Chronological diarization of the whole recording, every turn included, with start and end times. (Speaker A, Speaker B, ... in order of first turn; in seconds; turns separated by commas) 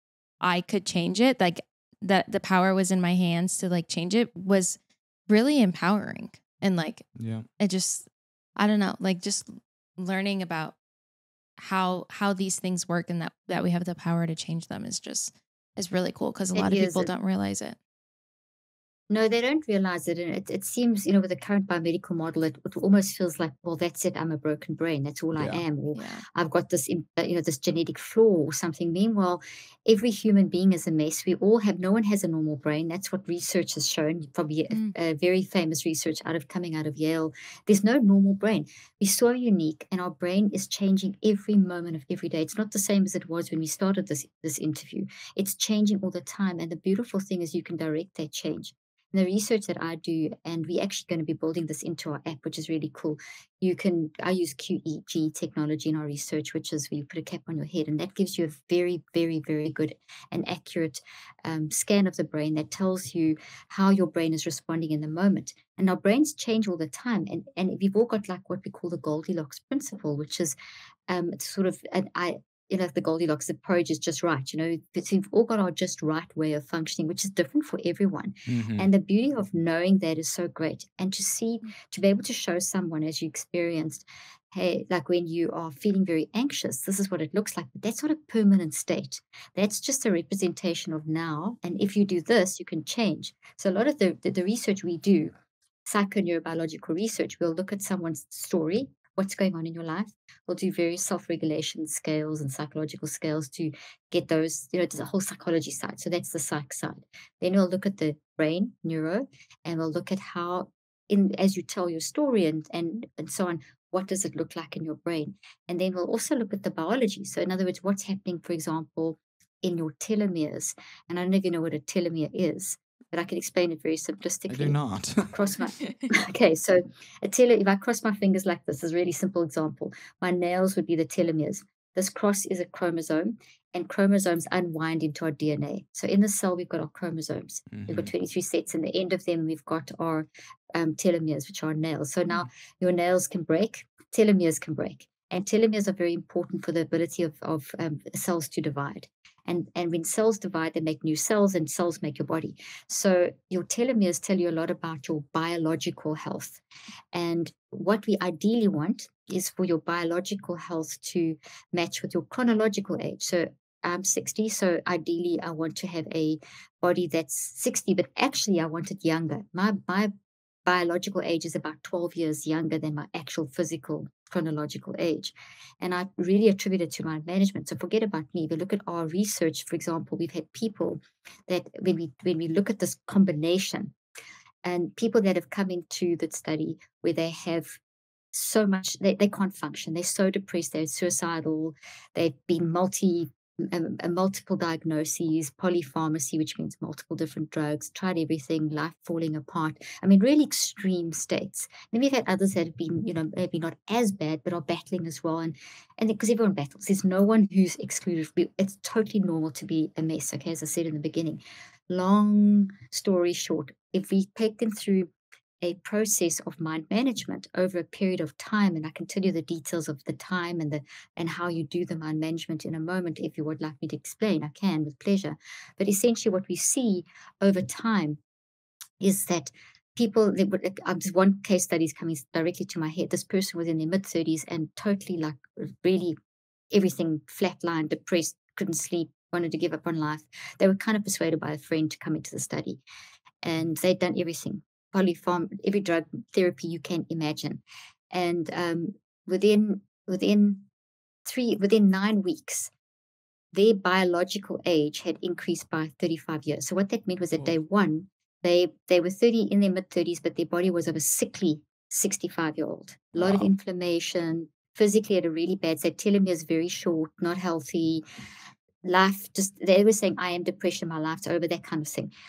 Speaker A: 0.4-7.1, Speaker B: 7.2-7.5, Speaker A: 7.6-8.1, Speaker A: 8.6-10.8, Speaker A: 11.6-17.8, Speaker C: 16.6-17.1, Speaker C: 19.1-70.5, Speaker B: 25.4-25.6, Speaker A: 25.9-26.2, Speaker C: 71.1-95.3, Speaker B: 78.5-78.9, Speaker C: 95.8-156.6, Speaker B: 124.5-125.3, Speaker B: 137.7-138.1, Speaker C: 157.1-170.1, Speaker C: 170.7-183.9, Speaker C: 184.6-187.8, Speaker C: 188.3-215.1, Speaker C: 215.6-228.2, Speaker C: 229.0-236.2, Speaker C: 236.7-242.8, Speaker C: 243.4-250.6, Speaker C: 251.2-252.7, Speaker C: 253.5-268.0, Speaker B: 263.1-263.5, Speaker C: 268.8-272.1